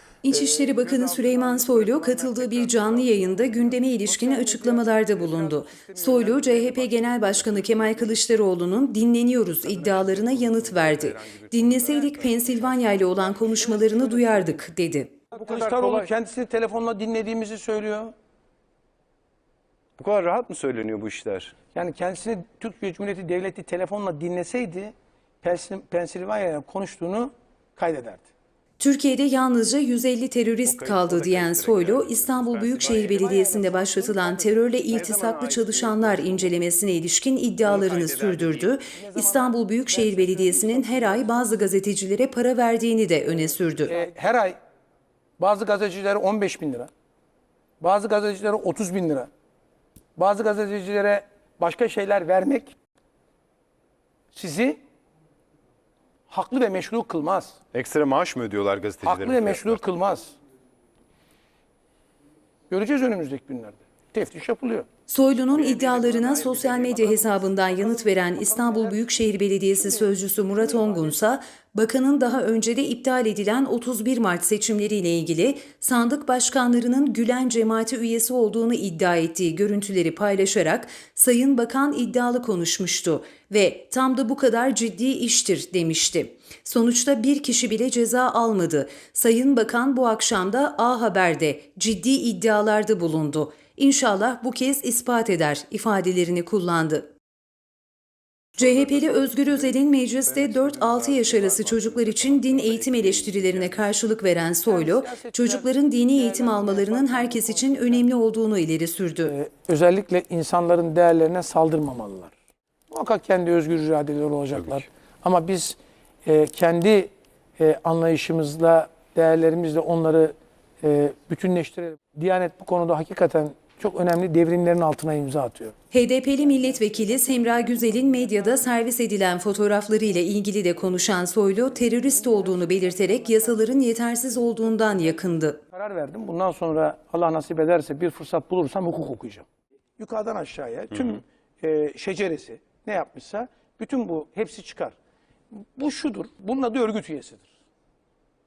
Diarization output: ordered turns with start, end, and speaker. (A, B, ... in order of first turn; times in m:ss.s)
0:00.2-0:15.2 A
0:00.3-0:08.2 B
0:09.4-0:13.3 C
0:13.4-0:14.6 B
0:15.3-0:18.1 B
0:15.7-0:16.0 C
0:20.0-0:21.5 C
0:21.7-0:28.2 B
0:28.8-0:44.0 A
0:30.6-0:33.5 C
0:32.8-0:34.9 B
0:34.9-0:36.6 C
0:37.6-0:38.8 C
0:38.9-0:41.4 B
0:43.8-0:44.6 B
0:45.4-0:46.9 B
0:47.8-0:49.3 B
0:50.2-0:52.7 B
0:54.3-0:54.8 B
0:56.3-0:57.6 B
0:57.7-0:59.8 C
0:59.0-1:00.4 B
1:02.7-1:04.9 B
1:05.1-1:37.1 A
1:05.5-1:11.2 B
1:38.6-1:49.3 A
1:38.6-1:43.9 C
1:44.6-1:48.1 B
1:49.2-1:52.3 B
1:52.9-2:05.7 B
1:54.5-1:54.8 C
2:05.9-2:15.6 A
2:06.4-2:08.8 B
2:10.8-2:19.5 B
2:20.0-2:25.0 B
2:25.5-2:27.5 B